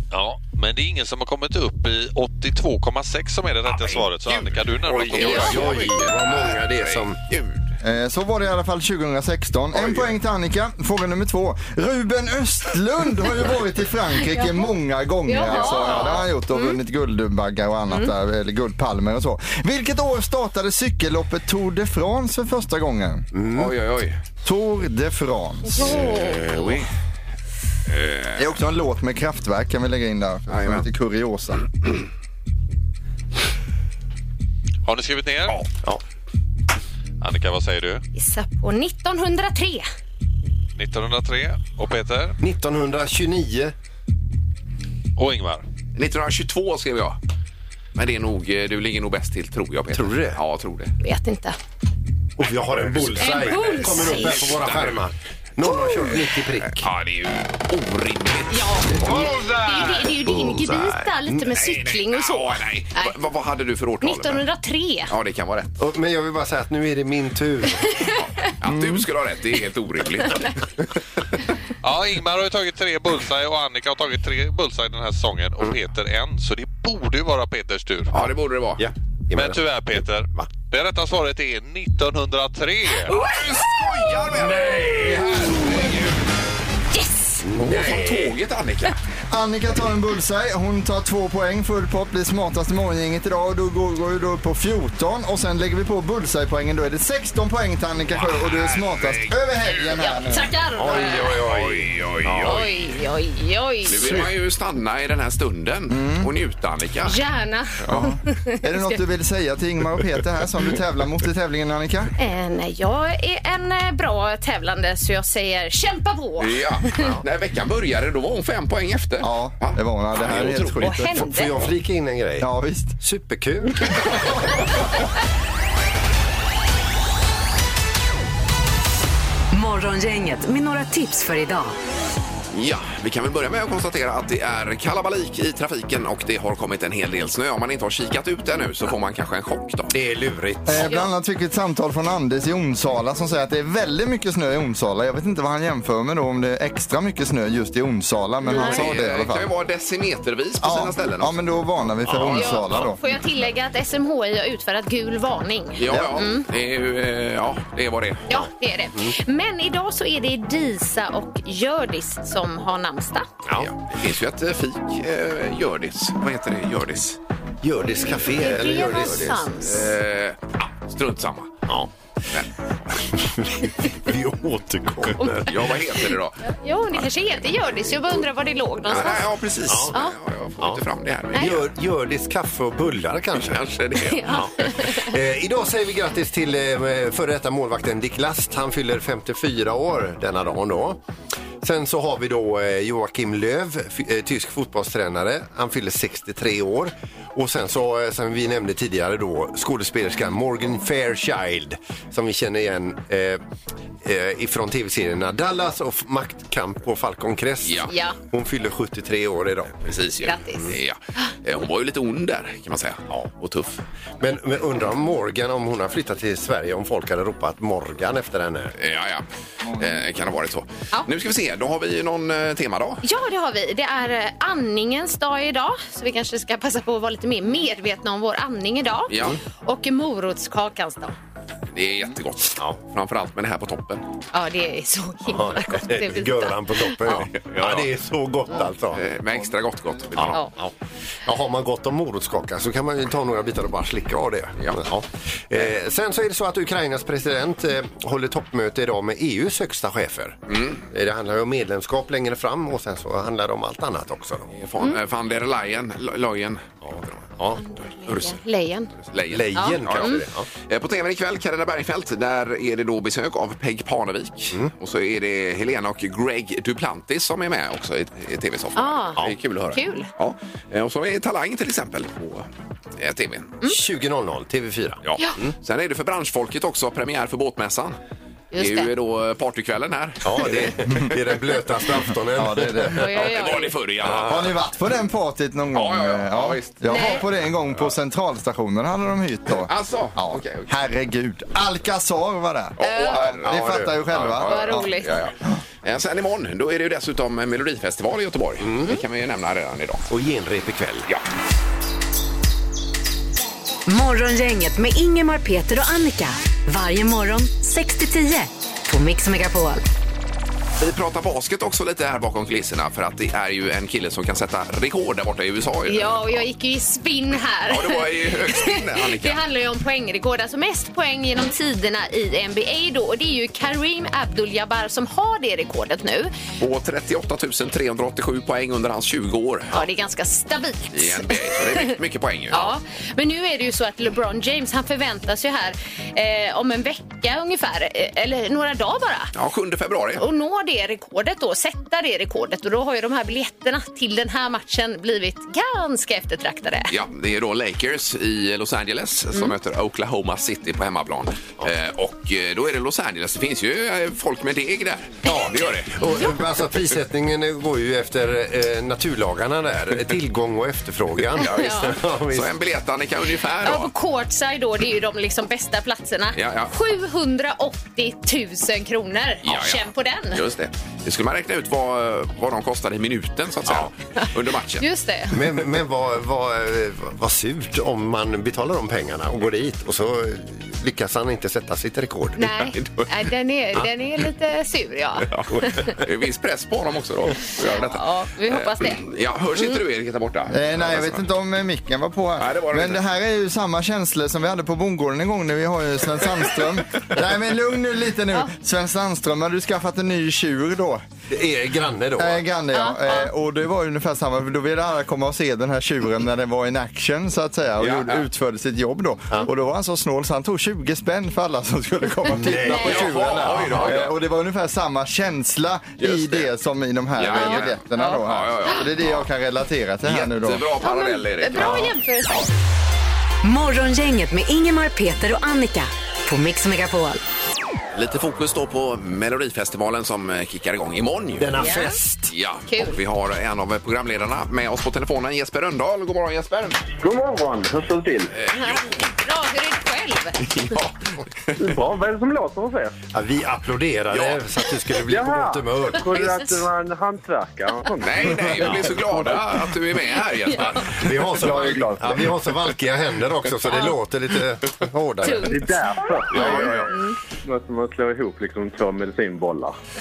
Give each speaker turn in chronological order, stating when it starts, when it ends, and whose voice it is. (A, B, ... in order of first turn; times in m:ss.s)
0:00.1-0:05.7 A
0:03.7-0:07.6 B
0:04.9-0:07.2 C
0:07.8-0:23.3 D
0:14.3-0:14.7 E
0:15.2-0:16.8 E
0:15.5-0:16.0 B
0:23.3-0:23.7 C
0:23.5-0:24.2 B
0:24.4-0:26.0 D
0:25.7-0:26.7 E
0:25.8-0:26.9 B
0:27.9-0:28.4 B
0:28.4-0:31.6 D
0:30.5-0:30.8 B
0:34.8-0:35.6 A
0:37.2-0:38.0 A
0:38.1-0:39.8 E
0:40.8-0:42.4 A
0:42.4-0:43.7 C
0:45.2-0:45.6 A
0:45.9-0:47.2 B
0:48.0-0:50.9 B
0:49.9-0:50.4 C
0:51.0-0:51.6 E
0:52.4-0:56.9 C
0:52.8-0:55.0 B
0:53.2-0:54.5 E
0:55.6-0:56.2 E
0:56.7-1:00.0 B
0:58.5-1:03.1 E
0:59.0-0:59.3 C
1:00.2-1:01.2 C
1:01.6-1:04.4 B
1:04.0-1:05.1 E
1:05.1-1:05.8 B
1:05.8-1:08.1 C
1:07.9-1:08.2 E
1:08.5-1:10.6 B
1:11.8-1:18.1 A
1:18.1-1:18.8 B
1:18.8-1:19.6 C
1:19.3-1:23.2 A
1:23.1-1:26.1 B
1:24.3-1:25.9 C
1:26.9-1:27.4 E
1:27.4-1:28.3 C
1:27.6-1:28.9 B
1:29.3-1:40.5 D
1:38.1-1:39.3 B
1:40.0-1:41.4 E
1:40.8-1:42.7 C
1:40.9-1:42.7 B
1:42.4-1:44.2 E
1:43.8-1:47.2 B
1:45.9-1:46.3 D
1:47.0-1:49.0 E
1:47.8-1:52.1 D
1:52.2-1:57.1 E
1:56.4-2:00.8 B
1:59.2-2:01.3 D
2:00.8-2:01.5 E
2:00.8-2:02.5 C
2:02.4-2:03.0 D
2:03.0-2:04.2 C
2:09.5-2:11.7 F
2:12.5-2:19.9 B
2:19.9-2:21.0 C
2:20.6-2:29.5 D
2:20.8-2:21.1 E
2:28.5-2:28.8 E
2:28.5-2:31.3 B
2:30.6-2:33.0 D
2:32.0-2:32.8 C
2:32.3-2:36.4 E
2:35.8-2:38.2 B
2:35.9-2:36.2 D
2:38.3-2:43.3 E
2:43.6-2:47.2 B
2:47.6-2:49.4 C
2:48.3-2:49.9 E
2:48.9-2:51.6 B
2:52.3-2:53.0 B
2:53.0-2:55.8 C
2:55.4-2:57.0 B
2:56.4-2:59.3 E
2:58.9-3:01.7 B
2:59.7-2:59.9 C
2:59.9-3:00.2 E
3:01.3-3:01.6 E
3:01.3-3:11.0 C
3:03.3-3:04.8 B
3:04.0-3:05.1 E
3:11.6-3:23.4 C
3:24.0-3:29.8 C
3:27.6-3:27.9 B
3:27.9-3:28.2 E
3:29.8-3:33.8 B
3:30.2-3:31.3 E
3:34.2-3:38.7 C
3:38.8-3:43.0 B
3:43.0-3:51.1 E
3:49.1-3:49.4 B
3:51.7-3:54.0 B
3:54.3-3:57.2 E
3:55.3-3:59.0 C
3:57.1-3:57.9 B
3:58.5-4:00.4 B
4:00.1-4:00.7 C
4:01.2-4:14.5 C
4:10.5-4:10.8 B
4:14.5-4:17.2 B
4:16.8-4:17.6 C
4:17.6-4:18.9 E
4:19.1-4:33.6 B
4:19.3-4:20.5 C
4:19.5-4:20.2 E
4:28.8-4:30.1 E
4:33.6-4:35.5 C
4:35.0-4:38.0 B
4:38.5-4:38.9 E
4:38.6-4:40.8 B
4:40.2-4:43.1 C
4:42.3-4:43.1 D
4:42.9-4:43.7 E
4:43.1-4:44.5 B
4:44.0-4:44.4 C
4:44.0-4:54.9 D
4:45.7-4:47.2 B
4:46.9-4:47.2 E
4:49.6-4:50.8 B
4:52.8-5:00.0 B
4:52.8-4:53.2 E
4:53.4-4:54.0 C
4:54.4-4:55.1 E
4:58.6-4:59.0 C
5:00.1-5:01.1 C
5:03.9-5:09.8 F
5:10.8-5:16.4 B
5:15.9-5:26.3 E
5:17.7-5:19.4 B
5:26.6-5:29.8 B
5:29.7-5:31.9 E
5:30.9-5:32.7 B
5:32.5-5:39.3 E
5:39.3-5:40.2 B
5:40.2-5:46.9 E
5:46.9-5:56.3 B
5:55.2-6:02.5 C
6:01.3-6:03.9 B
6:01.4-6:01.9 E
6:03.6-6:10.4 E
6:06.3-6:06.7 B
6:09.4-6:14.9 B
6:14.2-6:15.4 E
6:15.3-6:22.4 C
6:22.4-6:25.9 E
6:22.7-6:23.1 B
6:25.2-6:31.2 B
6:27.7-6:29.0 E
6:30.5-6:41.0 D
6:32.4-6:33.0 B
6:41.3-6:42.4 C
6:42.2-7:00.7 D
6:42.7-6:43.3 E
6:47.8-6:48.2 B
6:52.3-6:53.8 C
6:52.6-6:54.1 B
6:56.0-6:56.5 B
6:57.2-6:59.2 B
6:57.3-6:58.2 E
7:00.0-7:01.9 B
7:00.8-7:02.5 E
7:01.6-7:01.9 C
7:03.4-7:07.2 F
7:07.9-7:11.7 B
7:11.4-7:12.3 C
7:11.6-7:12.0 E
7:12.3-7:16.8 B
7:12.7-7:13.0 E
7:17.0-7:18.3 G
7:18.4-7:18.9 B
7:18.5-7:20.5 E
7:20.4-7:20.9 B
7:21.5-7:21.7 B
7:21.6-7:23.0 G
7:23.1-7:26.4 C
7:24.1-7:24.4 B
7:25.1-7:29.0 G
7:28.0-7:31.0 B
7:28.6-7:29.0 C
7:30.4-7:30.8 E
7:30.8-7:35.6 C
7:31.3-7:32.3 G
7:35.2-7:37.1 E
7:35.4-7:39.8 G
7:36.3-7:36.9 B